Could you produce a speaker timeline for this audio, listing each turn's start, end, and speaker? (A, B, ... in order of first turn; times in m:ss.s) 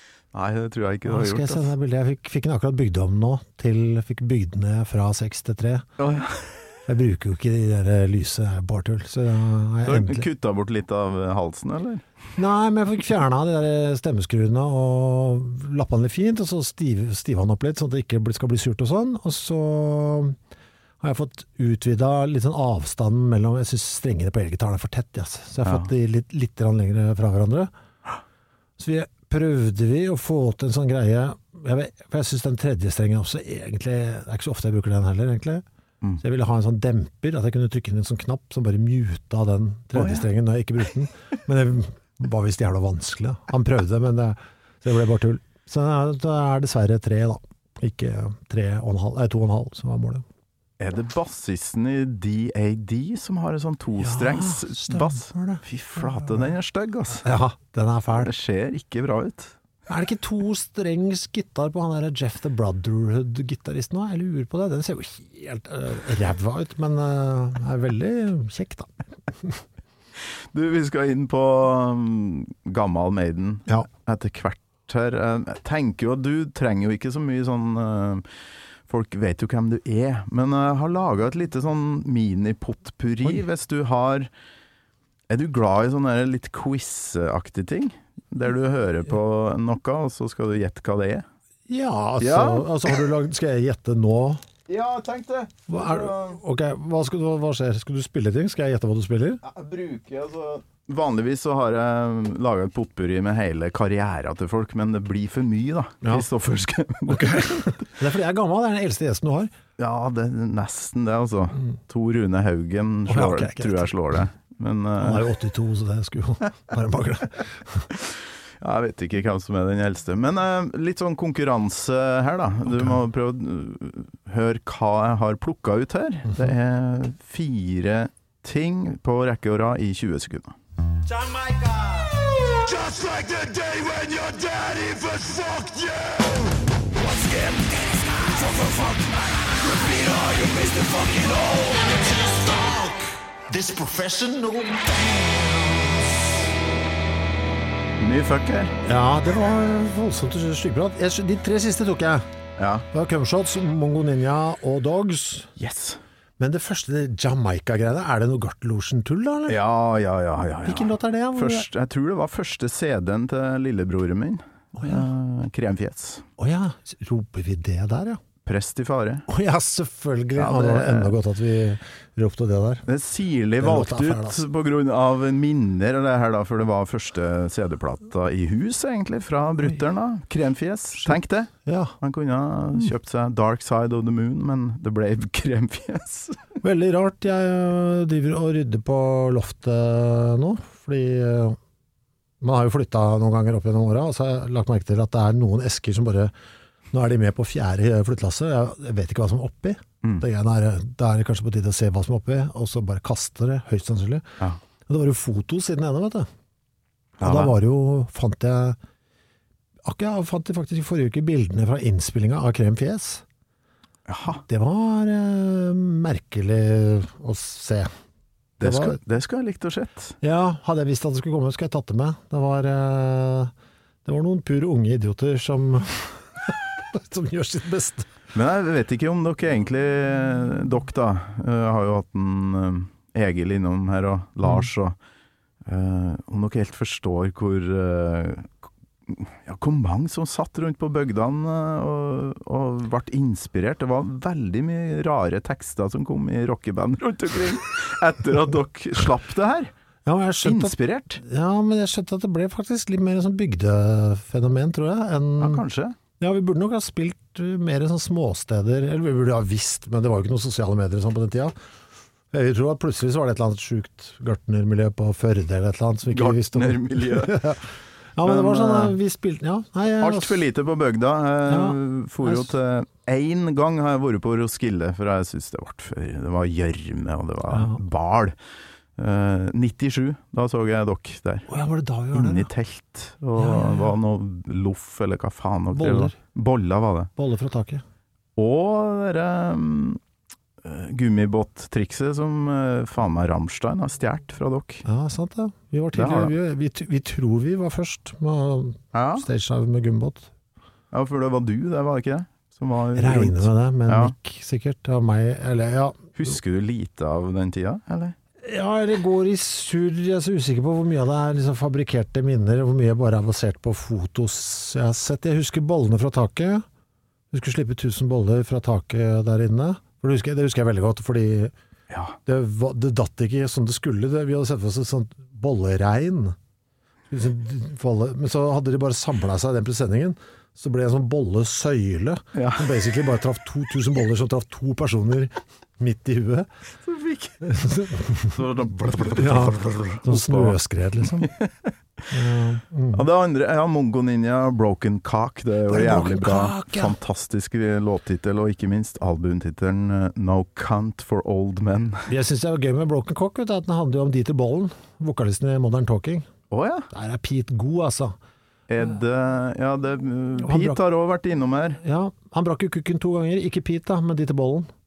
0:00.3-0:01.7 A
0:01.1-0:05.9 B
0:06.0-0:06.6 A
0:06.9-0:10.3 B
0:09.8-0:12.0 A
0:12.4-0:20.4 B
0:21.0-0:27.7 B
0:28.8-0:35.6 B
0:36.2-0:50.2 B
0:39.9-0:40.2 A
0:50.8-0:57.3 A
0:54.0-0:56.5 B
0:57.2-0:58.3 B
0:58.2-0:59.6 A
0:59.9-1:08.9 B
1:10.4-1:18.3 A
1:18.9-1:24.3 A
1:25.3-1:31.3 A
1:31.7-1:34.4 B
1:32.2-1:32.9 A
1:34.7-1:36.4 A
1:35.7-1:39.4 B
1:39.4-1:47.7 A
1:46.0-1:46.3 B
1:47.1-1:49.5 B
1:49.8-1:55.3 A
1:53.1-1:53.9 B
1:55.0-1:57.9 B
1:58.6-2:10.6 A
2:02.7-2:03.0 B
2:11.4-2:12.1 C
2:14.8-2:15.7 C
2:17.0-2:19.0 C
2:19.9-2:22.0 C
2:22.1-2:24.7 B
2:28.0-2:28.8 A
2:28.8-2:32.3 B
2:32.6-2:32.9 A
2:32.9-2:35.5 B
2:35.6-2:36.0 A
2:36.4-2:39.6 B
2:39.5-2:46.3 A
2:40.6-2:41.7 B
2:44.8-2:45.1 B
2:46.4-2:48.2 B
2:48.4-2:49.3 A
2:49.3-2:52.8 B
2:50.4-2:51.1 A
2:52.9-3:06.4 A
2:53.6-2:54.4 B
3:01.0-3:02.0 B
3:06.6-3:11.6 B
3:12.4-3:16.3 B
3:16.9-3:26.3 B
3:27.2-3:28.8 B
3:27.2-3:27.6 A
3:29.8-3:33.2 B
3:34.1-3:34.4 A
3:34.3-3:37.9 B
3:38.6-3:40.2 A
3:38.6-3:39.0 B
3:40.2-3:43.5 B
3:44.0-3:48.1 B
3:48.3-3:55.0 A
3:55.6-4:09.7 A
4:10.1-4:15.6 B
4:10.4-4:11.2 A
4:15.4-4:16.0 A
4:16.2-4:21.6 B
4:22.3-4:27.6 B
4:26.1-4:27.4 A
4:28.2-4:30.4 B
4:28.2-4:29.0 A
4:30.0-4:38.4 A
4:31.5-4:32.5 B
4:37.5-4:37.8 B
4:39.0-4:41.5 A
4:41.5-4:42.5 B
4:42.1-4:47.1 A
4:43.4-4:44.0 B
4:45.7-4:46.2 B
4:47.2-4:47.8 B
4:48.4-4:50.0 A
4:50.6-4:54.8 A
4:54.9-5:00.3 B
4:55.9-4:56.3 A
4:58.9-4:59.3 A
5:00.9-5:04.1 A
5:03.0-5:06.3 B
5:06.2-5:08.2 A
5:08.4-5:16.6 B
5:17.3-5:21.5 B
5:21.9-5:22.2 A
5:22.2-5:26.4 B
5:27.1-5:36.5 B
5:32.4-5:32.7 A
5:36.8-5:37.5 A
5:37.4-5:38.3 B
5:38.2-5:41.7 A
5:39.0-5:41.3 B
5:42.1-5:43.1 B
5:42.9-5:52.1 A
5:45.7-5:47.0 B
5:52.1-5:56.3 B
5:56.5-5:56.9 A
5:56.9-5:58.2 B
5:58.7-6:01.8 A
6:00.4-6:00.8 B
6:01.8-6:04.7 B